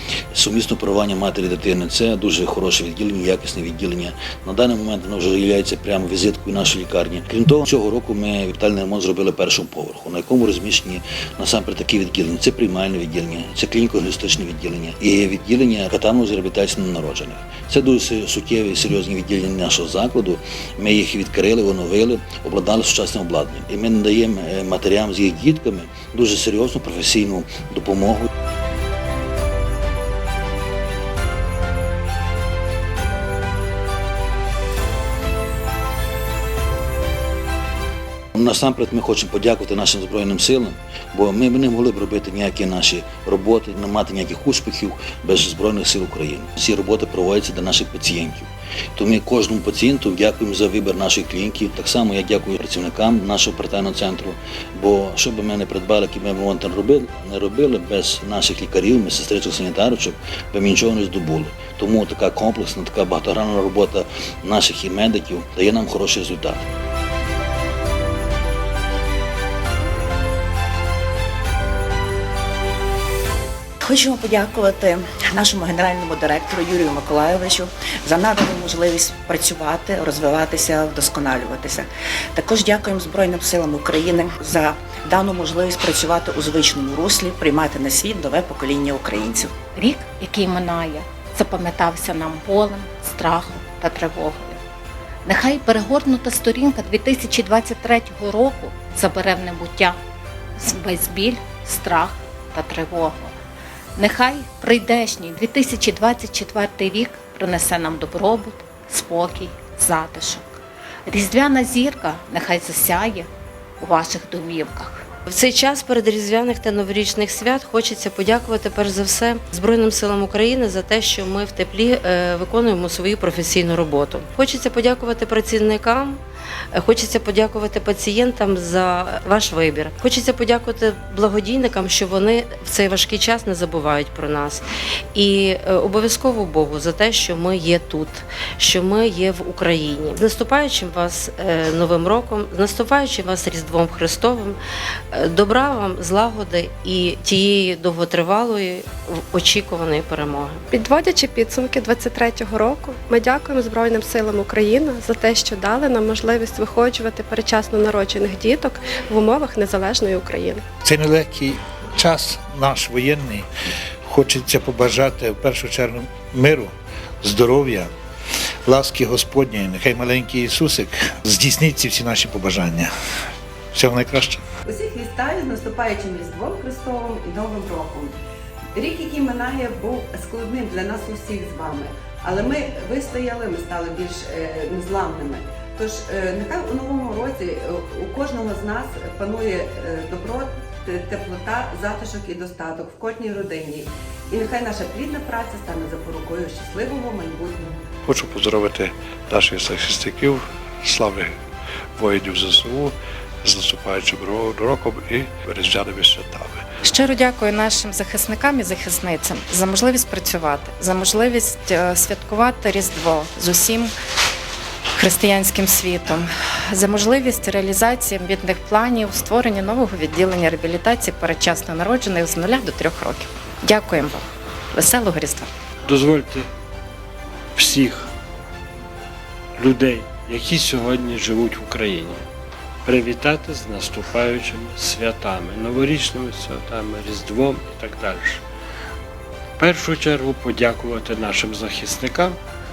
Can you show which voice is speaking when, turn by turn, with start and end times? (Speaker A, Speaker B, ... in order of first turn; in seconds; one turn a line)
Speaker A: 0.3-28.3
Speaker A: 38.4-66.7
Speaker B: 73.8-89.5
Speaker C: 89.8-94.6
Speaker C: 95.3-100.0
Speaker C: 100.6-103.3
Speaker C: 104.0-110.5
Speaker C: 111.1-113.3
Speaker C: 113.8-115.0
Speaker D: 115.3-126.2
Speaker D: 126.7-144.6
Speaker D: 145.1-150.6
Speaker E: 150.7-160.6
Speaker F: 160.8-163.5
Speaker F: 164.1-167.9
Speaker F: 168.7-172.9
Speaker F: 173.7-174.4
Speaker G: 174.7-178.1
Speaker G: 178.8-197.7
Speaker H: 198.1-201.3
Speaker H: 202.0-206.6
Speaker I: 206.8-213.9
Speaker I: 215.0-225.5
Speaker J: 225.9-226.5
Speaker J: 227.6-228.1
Speaker J: 229.6-232.2
Speaker J: 232.8-238.4
Speaker J: 239.6-242.4